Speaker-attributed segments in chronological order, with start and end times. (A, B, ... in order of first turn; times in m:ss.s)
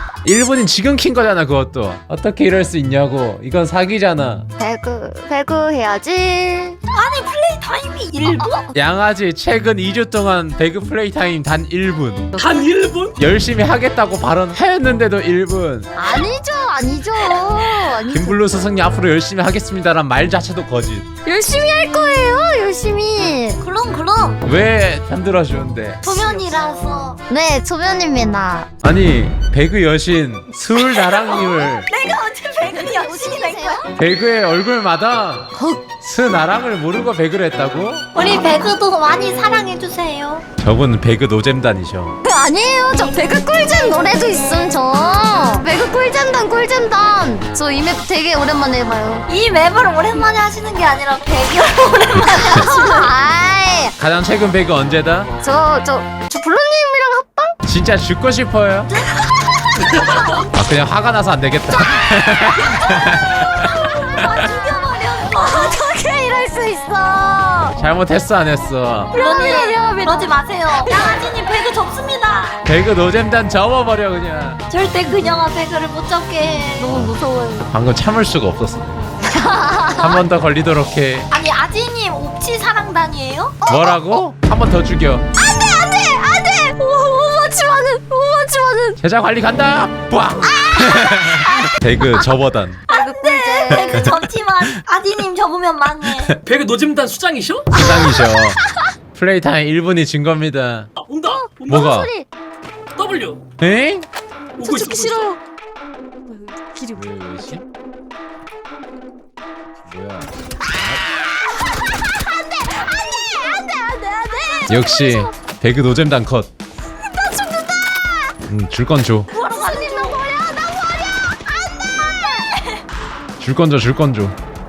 0:00.2-0:04.5 A
0:04.6-0:06.8 B
0:06.9-0:08.6 C
0:08.4-0:08.7 B
0:08.7-0:12.4 A
0:12.4-0:13.2 D
0:13.2-0:15.9 A
0:16.0-0:18.4 B
0:18.1-0:21.1 A
0:21.2-0:23.6 B
0:23.6-0:24.4 C
0:24.4-0:26.1 A
0:26.0-0:27.2 C
0:27.3-0:28.7 B
0:28.8-0:31.9 A
0:30.8-0:33.9 C
0:32.7-0:33.9 B
0:34.0-0:38.1 A
0:35.5-0:35.9 B
0:38.1-0:40.4 C
0:40.6-0:42.2 A
0:42.2-0:49.3 B
0:49.3-0:53.1 C
0:52.1-0:54.0 B
0:54.0-0:55.3 A
0:55.4-0:57.6 B
0:57.7-0:59.0 A
0:58.9-1:00.3 C
1:00.5-1:03.7 A
1:01.8-1:04.4 B
1:03.5-1:05.8 C
1:05.2-1:07.8 B
1:07.8-1:09.1 A
1:09.1-1:12.6 C
1:09.1-1:11.3 B
1:12.6-1:14.6 A
1:14.7-1:16.9 C
1:16.8-1:17.7 B
1:16.9-1:17.2 A
1:17.7-1:19.1 A
1:19.2-1:20.2 B
1:20.0-1:21.3 A
1:21.3-1:24.0 C
1:23.7-1:25.3 A
1:25.4-1:29.0 B
1:29.0-1:32.8 A
1:30.8-1:31.4 B
1:32.9-1:36.4 C
1:32.9-1:34.1 B
1:33.7-1:34.2 A
1:36.4-1:37.7 D
1:37.7-1:38.6 A
1:37.7-1:38.9 B
1:39.1-1:40.9 A
1:41.0-1:41.9 D
1:41.3-1:42.3 B
1:41.7-1:42.1 A
1:43.0-1:43.4 D
1:43.6-1:44.1 A
1:44.6-1:45.3 D
1:44.6-1:45.4 B
1:46.2-1:47.6 B
1:47.0-1:47.6 A
1:49.9-1:51.0 A
1:51.3-1:55.3 B
1:54.7-1:56.5 A
1:57.0-1:58.4 B
1:58.5-1:59.3 A
1:59.3-2:00.2 C
1:59.3-2:02.5 B
2:03.4-2:04.4 A